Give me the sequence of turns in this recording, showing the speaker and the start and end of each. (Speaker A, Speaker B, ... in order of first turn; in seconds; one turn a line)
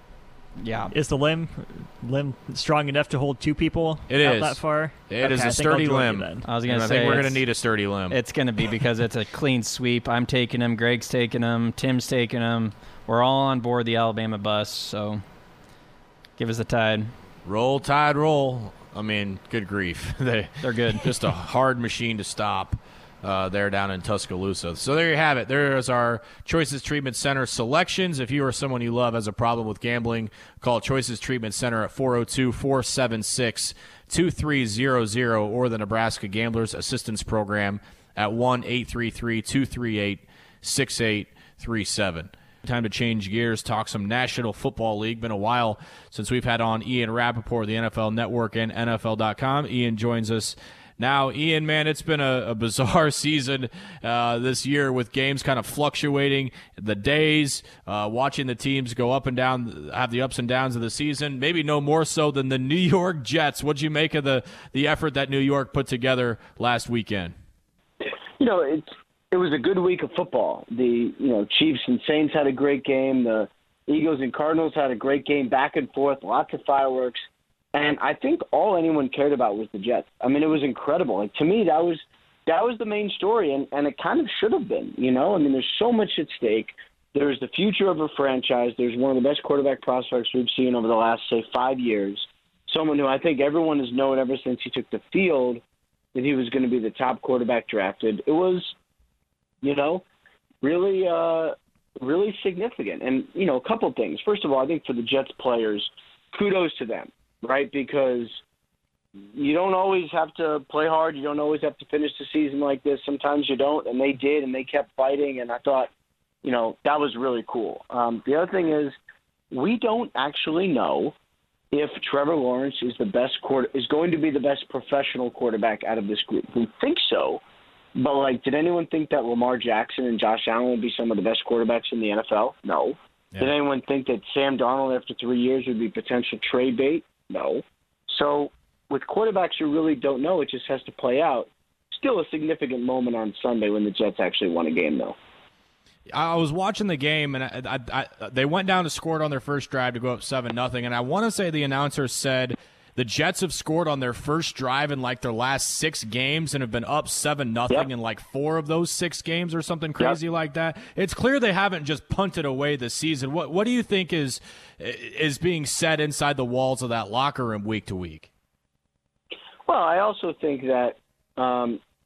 Speaker A: 0.6-0.9
Speaker B: 0.9-6.5
Speaker C: 4.1-8.2
Speaker A: 6.4-7.4
Speaker A: 8.1-15.2
Speaker A: 16.4-17.1
Speaker C: 17.4-67.3
Speaker A: 20.6-21.1
Speaker D: 68.4-77.2
Speaker D: 77.7-95.6
Speaker D: 96.1-98.7
Speaker D: 99.6-100.0
Speaker D: 100.6-108.4
Speaker D: 109.3-115.9
Speaker D: 116.4-118.9
Speaker D: 119.5-121.1
Speaker D: 121.7-127.4
Speaker D: 128.0-145.2
Speaker C: 146.1-168.3
Speaker D: 169.7-171.8